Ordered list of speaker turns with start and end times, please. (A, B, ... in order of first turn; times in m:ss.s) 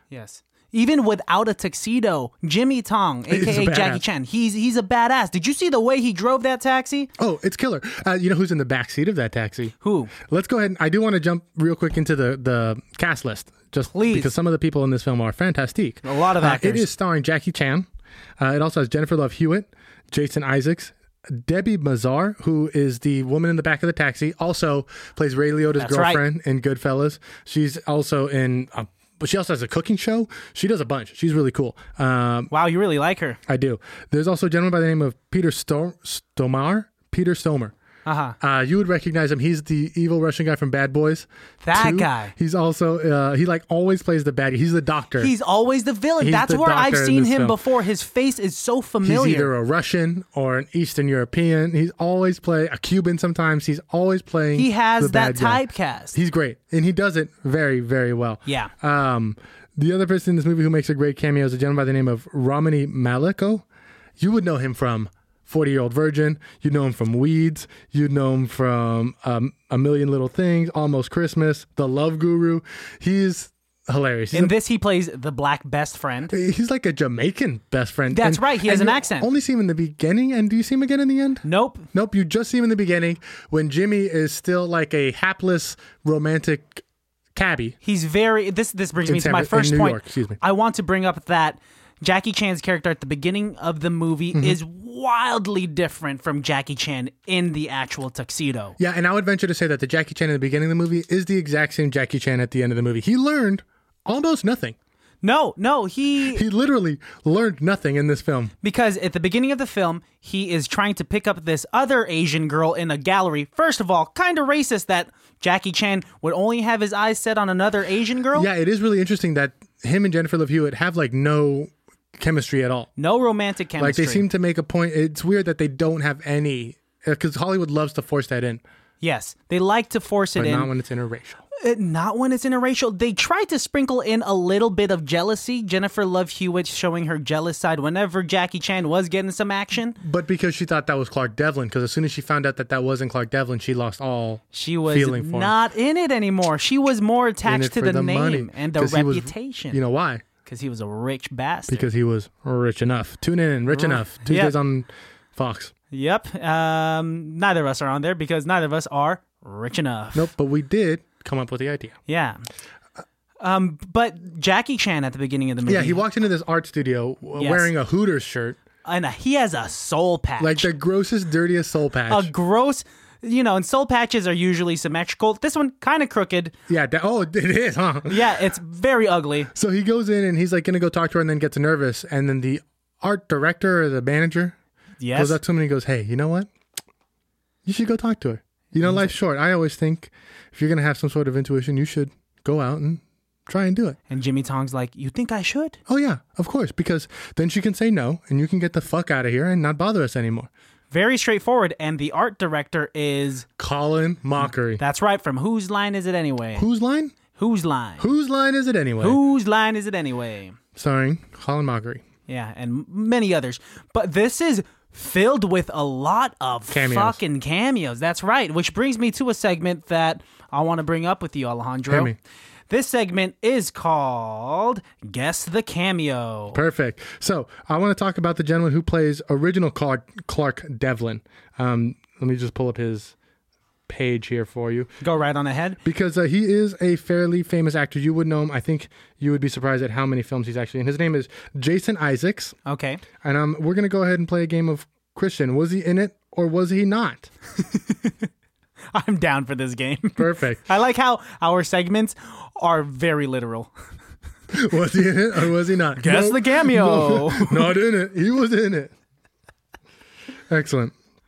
0:00.1-0:07.1 A
0:03.3-0:04.0 B
0:07.2-0:17.9 B
0:09.8-0:10.1 A
0:13.9-0:14.3 A
0:16.0-0:16.9 A
0:18.4-0:32.5 B
0:25.8-0:26.2 A
0:32.5-0:33.4 A
0:33.5-0:37.7 B
0:38.0-0:38.4 A
0:38.4-0:45.3 B
0:41.6-0:42.3 A
0:45.2-0:49.5 A
0:46.2-0:47.6 B
0:49.0-0:55.6 B
0:54.6-0:56.2 A
0:56.1-1:03.6 B
0:58.5-0:58.7 A
1:04.2-1:14.5 B
1:14.3-1:16.3 A
1:16.3-1:26.8 B
1:18.1-1:19.3 A
1:21.4-1:21.9 A
1:27.4-1:27.8 B
1:27.8-1:38.8 A
1:29.1-1:30.4 B
1:38.8-1:44.8 B
1:45.2-1:46.4 A
1:46.3-1:48.5 B
1:48.6-1:58.5 A
1:58.4-2:02.9 B
2:03.0-2:04.3 A
2:03.8-2:08.6 B
2:09.0-2:10.7 A
2:10.4-2:11.4 B
2:11.6-2:20.0 A
2:20.0-2:25.5 B
2:24.5-2:29.8 A
2:27.4-2:30.2 B
2:30.4-2:31.8 A
2:31.7-2:35.7 B
2:33.7-2:34.6 A
2:35.9-2:40.3 A
2:40.2-2:42.0 B
2:42.1-2:42.4 A
2:43.4-2:46.0 A
2:45.7-2:48.6 B
2:47.4-2:47.7 A
2:48.8-2:50.7 A
2:50.4-2:52.3 B
2:52.1-2:56.5 A
2:56.7-2:58.3 B
2:58.1-2:59.5 A
2:59.5-3:04.6 B
3:05.0-3:05.4 A
3:05.2-3:06.5 B
3:07.6-3:14.0 B
3:08.8-3:09.1 A
3:14.1-3:15.8 A
3:15.9-3:20.5 B
3:20.9-3:23.5 A
3:23.6-3:24.8 B
3:24.8-3:26.7 A
3:26.6-3:27.1 B
3:27.3-3:28.1 A
3:28.0-3:29.2 B
3:29.0-3:30.6 A
3:30.8-3:32.0 B
3:32.3-3:42.1 A
3:36.7-3:37.2 B
3:41.9-3:42.2 B
3:42.7-3:46.6 A
3:46.5-3:53.1 B
3:53.9-3:54.9 B
3:55.0-3:55.8 A
3:55.8-4:02.6 B
4:02.7-4:03.0 A
4:03.2-4:07.3 B
4:07.6-4:08.3 A
4:08.9-4:13.7 A
4:10.2-4:10.6 B
4:14.5-4:18.9 B
4:16.0-4:17.8 A
4:20.5-4:20.9 B